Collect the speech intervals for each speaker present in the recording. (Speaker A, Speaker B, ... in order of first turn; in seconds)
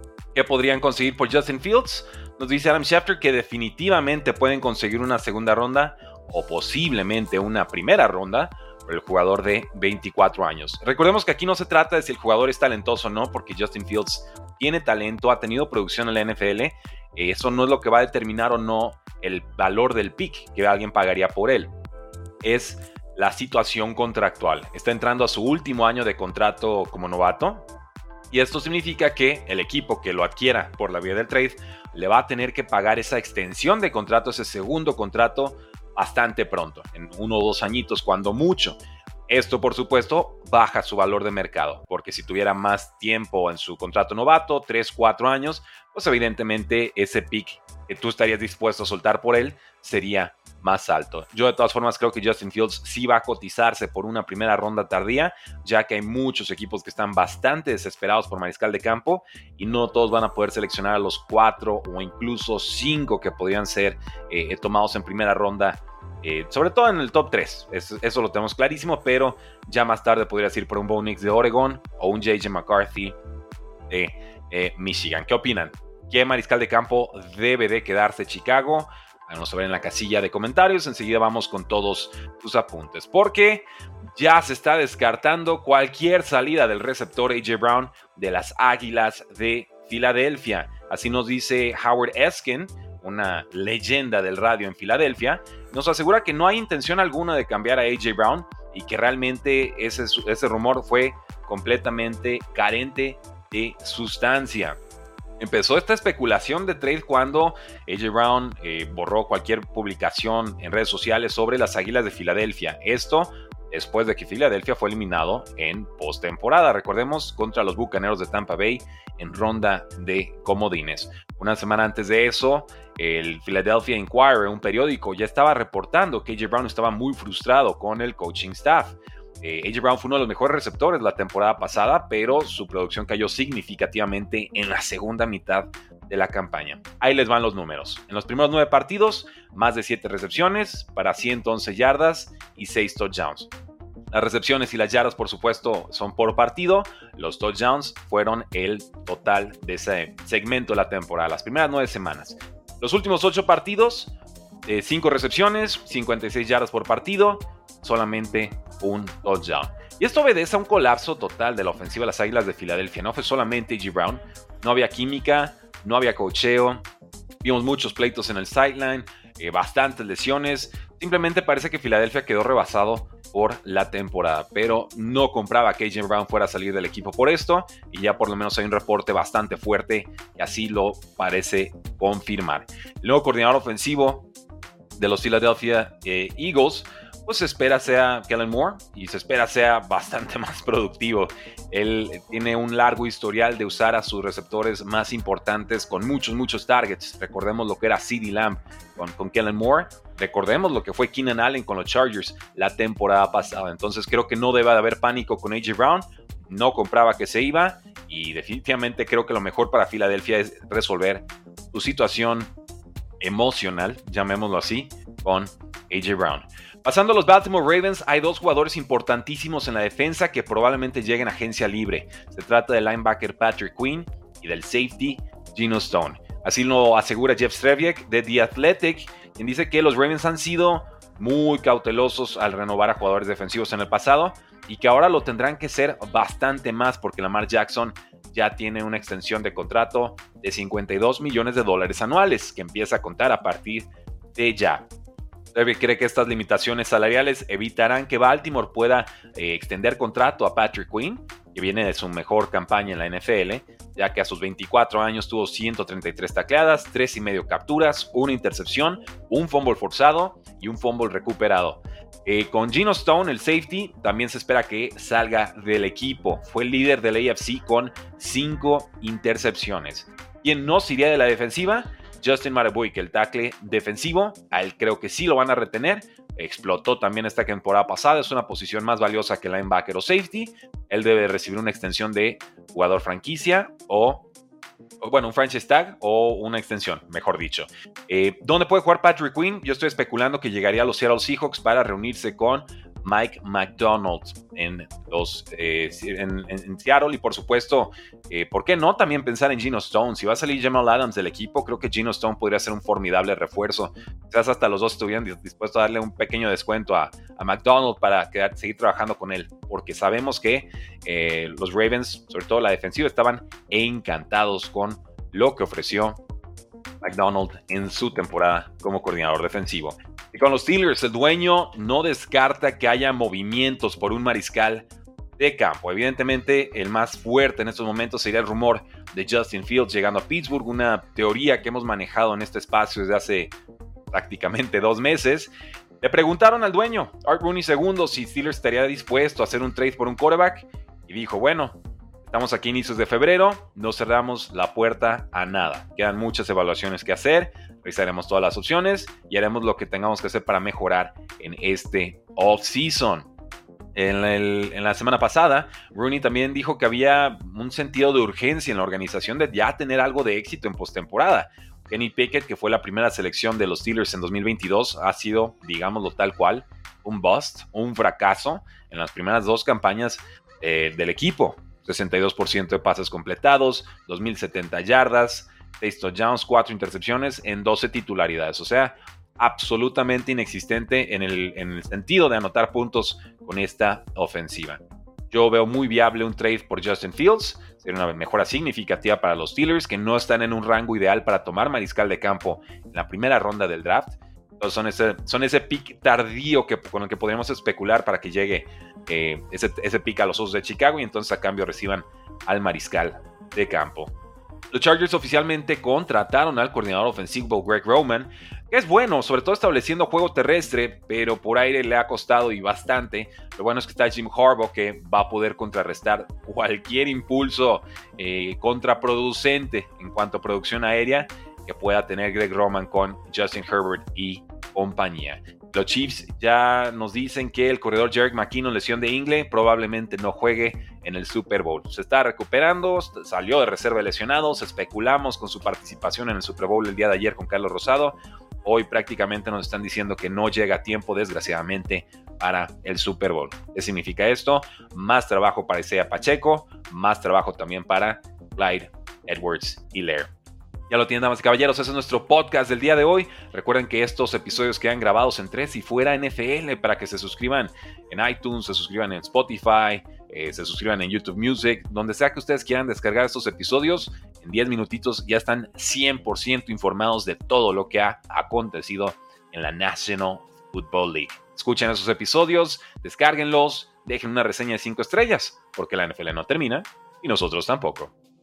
Speaker A: 0.3-21.7, 22.4-27.6, 28.3-73.1, 73.9-104.8, 105.4-143.5, 144.1-166.8, 167.4-184.3, 185.0-212.5, 213.2-244.9, 245.5-284.3, 285.0-316.2, 317.0-333.5, 334.1-353.3, 353.9-404.1, 404.7-450.3, 450.9-478.1